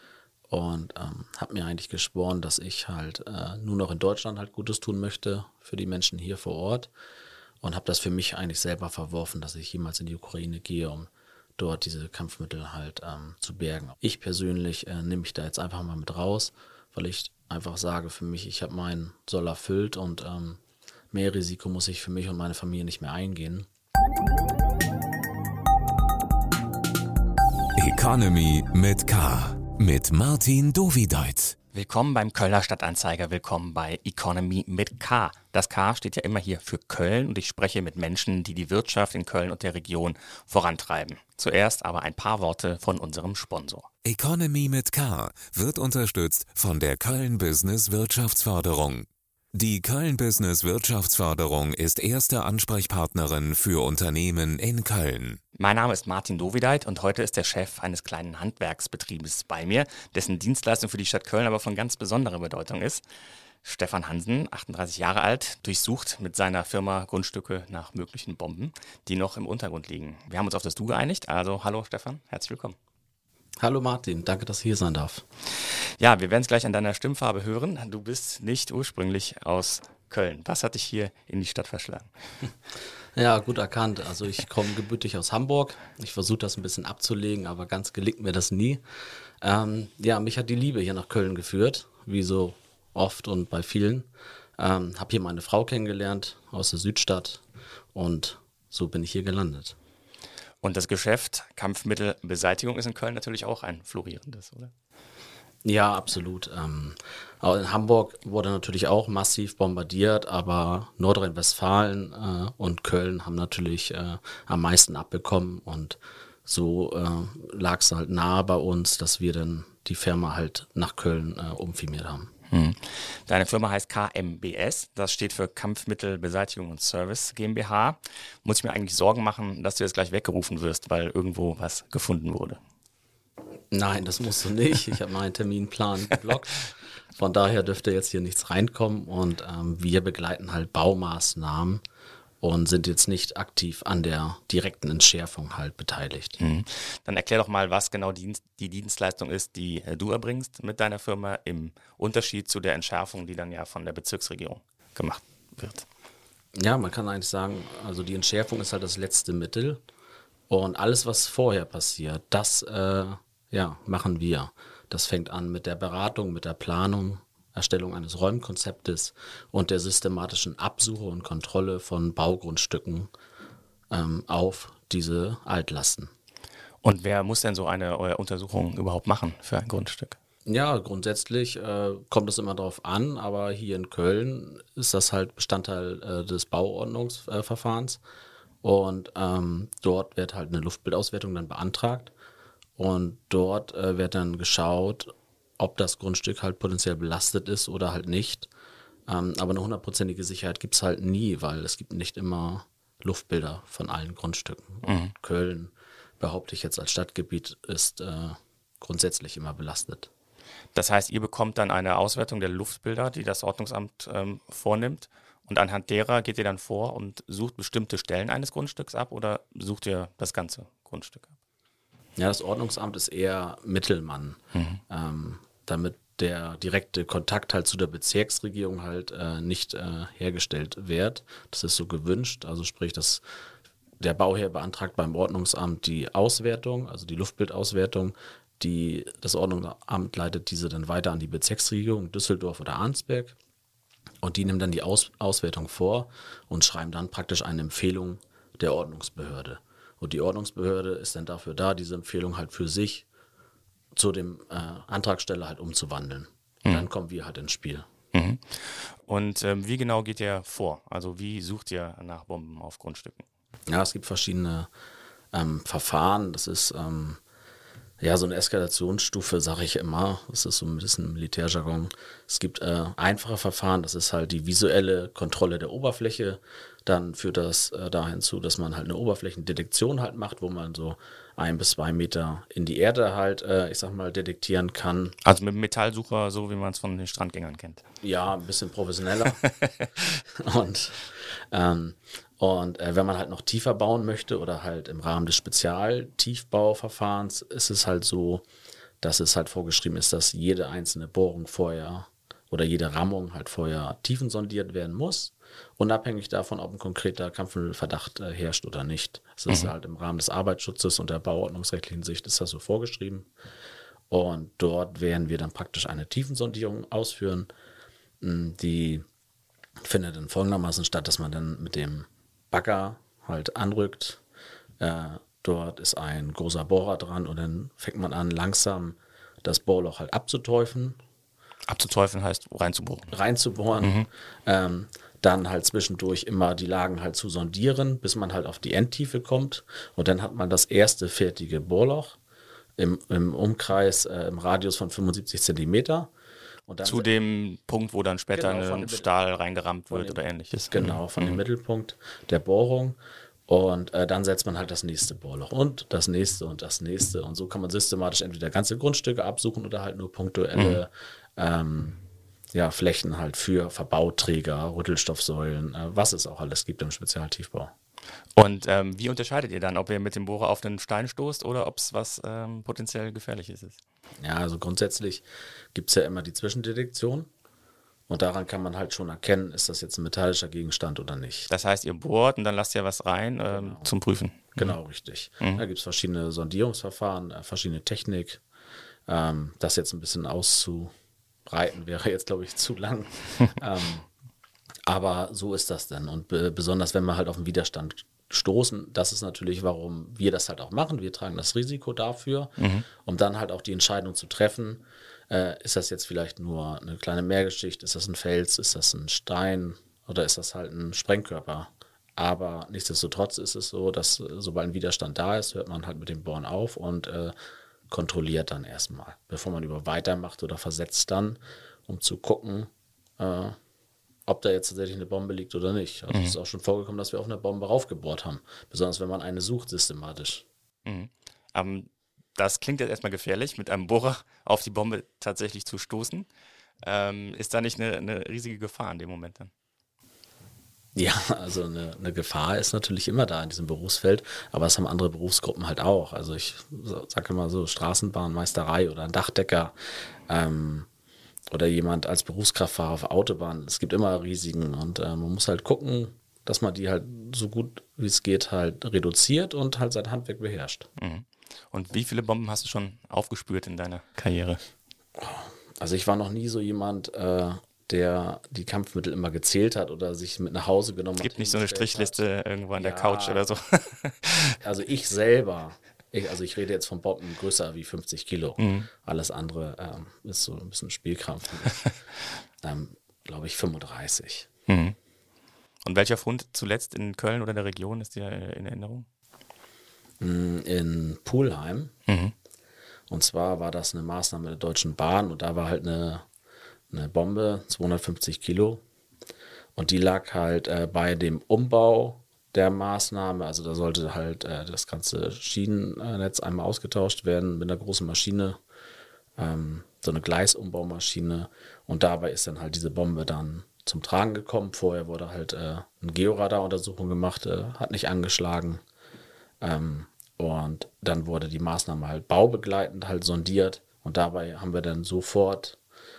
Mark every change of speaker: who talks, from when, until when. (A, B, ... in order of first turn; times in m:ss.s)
0:00.5-0:06.9 A
0:07.6-0:20.6 A
0:21.1-0:23.7 A
0:27.8-0:31.6 B
0:31.7-0:43.9 C
0:44.0-0:55.4 B
0:55.6-1:03.0 C
1:03.6-1:12.8 C
1:13.6-1:15.2 A
1:15.6-1:22.1 C
1:23.2-1:28.8 A
1:29.4-1:34.1 A
1:34.6-1:37.4 A
1:37.9-1:39.8 A
1:40.6-1:44.7 C
1:45.6-2:02.3 A
2:02.5-2:12.6 C
2:13.7-2:21.8 A
2:22.4-2:26.4 A
2:26.4-2:35.9 C
2:36.6-2:39.8 A
2:40.5-2:53.1 A
2:53.9-2:56.1 A
2:56.8-3:00.2 C
3:00.5-3:08.0 A
3:08.6-3:12.1 A
3:12.8-3:18.5 A
3:19.1-3:30.1 A
3:24.8-3:25.1 C
3:30.8-3:41.3 C
3:42.2-3:53.2 A
3:44.5-3:44.8 C
3:54.0-4:03.4 A
4:04.2-4:13.1 A
4:14.0-4:17.9 A
4:18.1-4:23.2 C
4:23.7-4:24.7 A
4:25.3-4:27.2 A
4:28.0-4:45.2 A
4:45.2-4:47.8 C
4:48.0-4:49.4 A
4:49.4-4:49.8 C
4:50.3-4:58.4 A
4:59.0-5:13.3 A
5:14.1-5:17.5 A
5:18.2-5:19.0 A
5:19.8-5:24.2 A
5:24.8-5:31.0 A
5:31.7-5:33.1 C
5:33.1-5:42.2 A
5:33.8-5:34.1 C
5:42.8-5:46.1 A
5:46.7-5:47.1 A
5:46.8-5:51.4 C
5:48.3-5:49.1 A
5:49.9-5:50.2 A
5:50.7-5:53.0 A
5:53.5-6:02.0 A
6:00.6-6:00.8 C
6:02.5-6:07.7 A
6:08.4-6:13.8 C
6:14.2-6:17.3 A
6:18.1-6:21.5 A
6:21.5-6:24.8 C
6:23.5-6:23.9 A
6:24.6-6:28.4 A
6:29.1-6:30.9 A
6:31.5-6:34.1 A
6:34.9-6:57.3 A
6:42.6-6:42.9 C
6:57.9-7:03.6 A
7:04.3-7:10.4 A
7:06.1-7:06.4 C
7:10.9-7:16.3 C
7:16.8-7:19.5 C
7:21.0-7:29.7 A
7:30.3-7:30.9 A
7:31.5-7:40.9 A
7:41.0-7:44.6 C
7:45.2-7:52.2 A
7:51.2-7:54.6 C
7:52.8-7:53.4 A
7:54.6-8:01.8 A
7:58.6-7:58.9 C
8:02.6-8:04.5 A
8:04.7-8:05.0 C
8:05.8-8:09.1 C
8:10.2-8:11.9 A
8:12.1-8:12.3 C
8:13.1-8:16.2 A
8:16.9-8:18.8 A
8:19.8-8:28.6 A
8:29.4-8:38.8 A
8:39.6-8:45.8 A